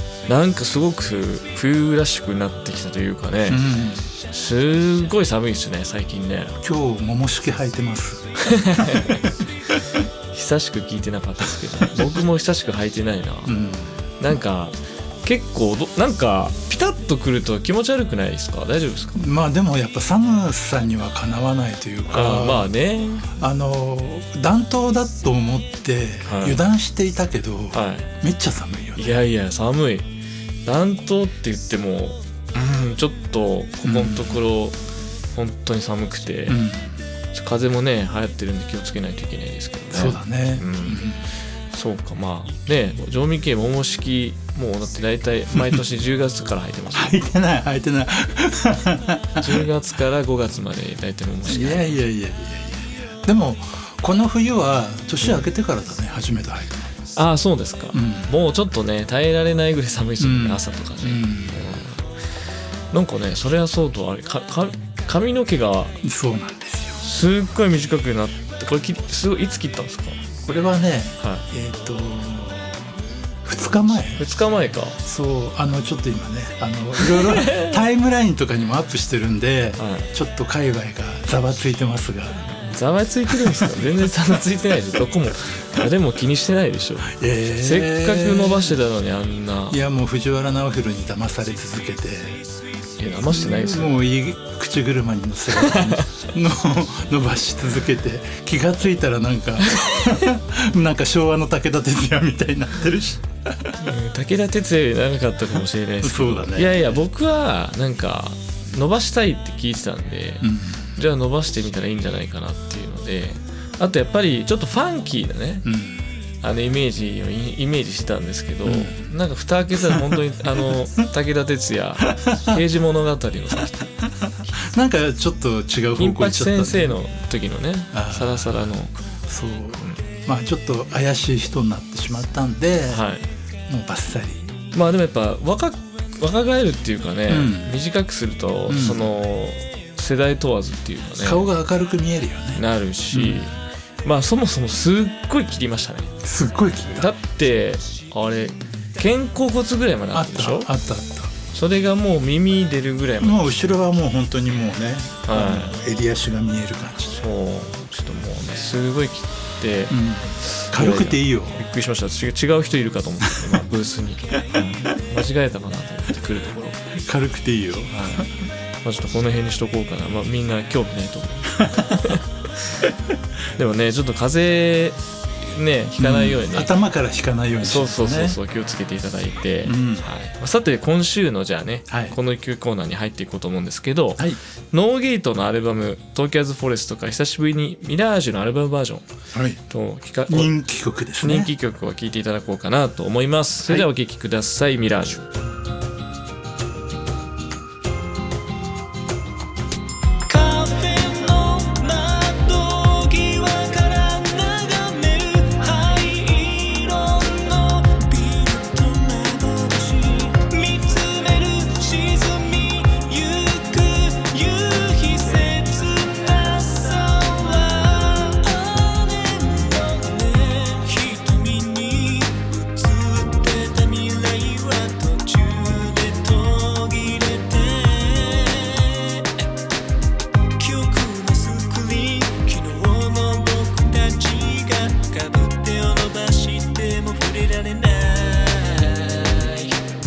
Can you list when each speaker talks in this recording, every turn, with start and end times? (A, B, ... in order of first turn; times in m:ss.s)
0:00.3-0:03.6 A
0:03.5-0:04.1 B
0:04.3-0:06.6 A
0:06.6-0:10.0 B
0:08.5-0:09.2 A
0:10.3-0:13.5 A
0:13.5-0:14.0 B
0:14.2-0:19.2 A
0:19.2-0:22.7 B
0:22.1-0:23.3 A
0:23.3-0:29.2 B
0:26.2-0:26.6 A
0:27.7-0:28.1 A
0:29.0-0:30.1 A
0:30.6-0:34.8 A
0:33.8-0:34.4 B
0:35.3-0:36.6 A
0:36.5-0:37.0 B
0:37.3-0:41.0 A
0:39.9-0:41.3 B
0:41.7-0:47.2 A
0:45.5-0:45.8 B
0:46.9-0:49.6 B
0:49.4-0:52.0 A
0:51.4-0:56.9 B
0:55.2-0:55.5 A
0:57.1-1:02.1 A
0:57.9-0:58.3 B
1:00.2-1:01.6 B
1:02.9-1:06.0 A
1:06.0-1:07.0 B
1:07.0-1:10.2 A
1:10.4-1:12.9 B
1:11.2-1:11.4 A
1:13.4-1:14.2 B
1:14.2-1:15.0 A
1:15.0-1:22.4 B
1:17.0-1:17.8 A
1:19.8-1:20.1 A
1:22.5-1:29.8 A
1:27.0-1:28.8 B
1:29.7-1:32.4 B
1:33.0-1:34.0 A
1:33.3-1:43.7 B
1:35.6-1:36.0 A
1:43.8-1:55.7 A
1:46.0-1:46.9 B
1:50.4-1:51.0 B
1:55.6-1:56.0 B
1:56.4-2:03.8 A
1:58.6-1:59.1 B
1:59.8-2:00.2 B
2:04.7-2:07.0 B
2:06.0-2:08.9 A
2:07.9-2:08.7 B
2:09.3-2:13.0 B
2:12.9-2:13.3 A
2:13.7-2:14.5 B
2:14.7-2:21.5 A
2:17.3-2:17.7 B
2:18.7-2:19.0 B
2:21.2-2:23.5 B
2:22.5-2:26.1 A
2:26.2-2:27.1 B
2:26.9-2:30.7 A
2:30.1-2:31.3 B
2:31.5-2:33.6 A
2:33.2-2:37.2 B
2:35.3-2:35.8 A
2:37.1-2:46.8 A
2:39.9-2:41.6 B
2:47.0-2:48.3 B
2:47.9-2:48.3 A
2:48.8-2:52.2 A
2:51.6-2:52.2 B
2:53.5-2:55.0 A
2:55.5-2:56.7 A
2:56.0-2:58.4 B
2:57.6-3:09.0 A
2:59.6-3:00.0 B
3:01.9-3:02.2 B
3:09.3-3:09.6 B
3:09.7-3:10.5 A
3:10.3-3:11.5 B
3:11.2-3:15.2 A
3:20.3-3:49.0 C
3:26.6-3:27.3 A
3:50.6-3:59.2 C
3:58.3-3:58.6 A
3:59.2-3:59.8 A